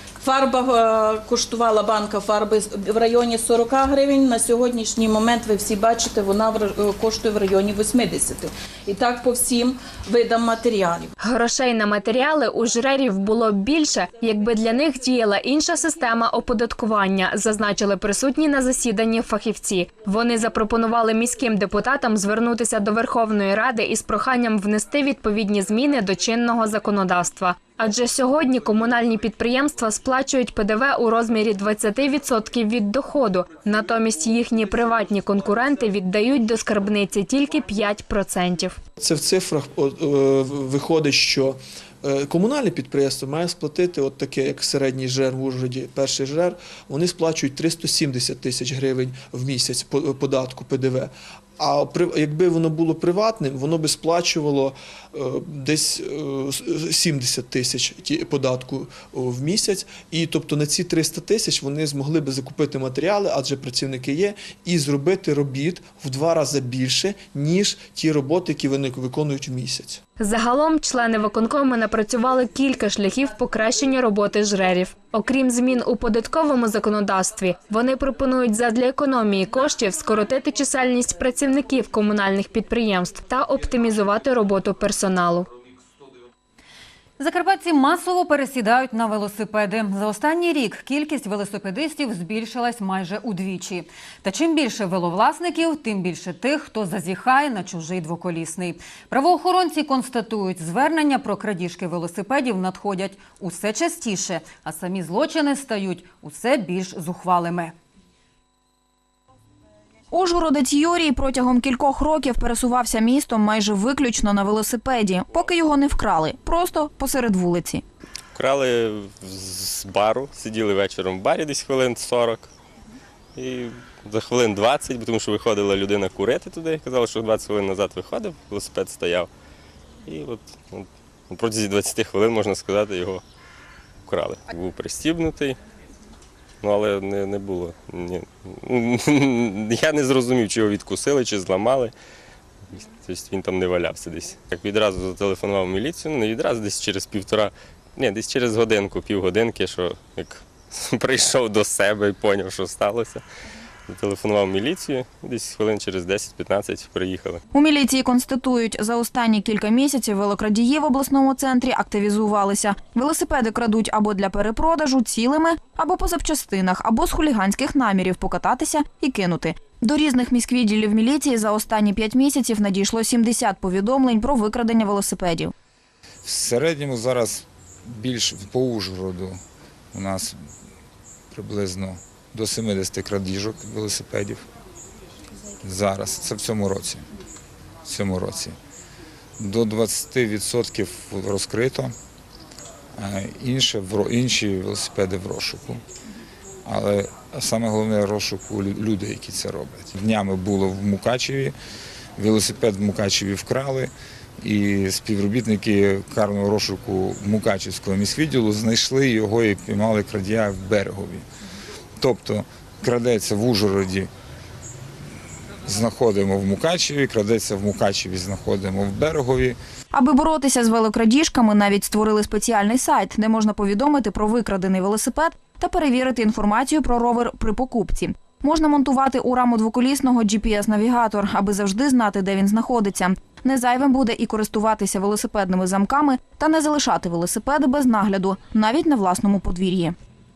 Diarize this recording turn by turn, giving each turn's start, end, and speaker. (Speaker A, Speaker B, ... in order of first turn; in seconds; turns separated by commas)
Speaker A: 0.2-11.1, Speaker B: 11.2-38.8, Speaker C: 39.0-70.0, Speaker B: 70.2-85.5, Speaker D: 87.2-107.8, Speaker E: 110.1-117.8, Speaker F: 118.3-122.5, Speaker F: 123.4-129.3, Speaker F: 130.1-133.2, Speaker F: 134.1-135.6, Speaker F: 136.6-141.9, Speaker F: 142.7-153.2, Speaker F: 153.9-157.4, Speaker E: 157.5-175.5, Speaker G: 176.2-179.4, Speaker G: 179.9-180.4, Speaker G: 181.3-184.4, Speaker G: 185.6-187.0, Speaker G: 187.8-188.6, Speaker G: 189.4-191.9, Speaker G: 193.0-195.8, Speaker G: 196.7-201.5, Speaker G: 202.2-203.9, Speaker G: 204.4-211.2, Speaker G: 212.0-214.1, Speaker G: 215.7-219.6, Speaker E: 219.9-239.9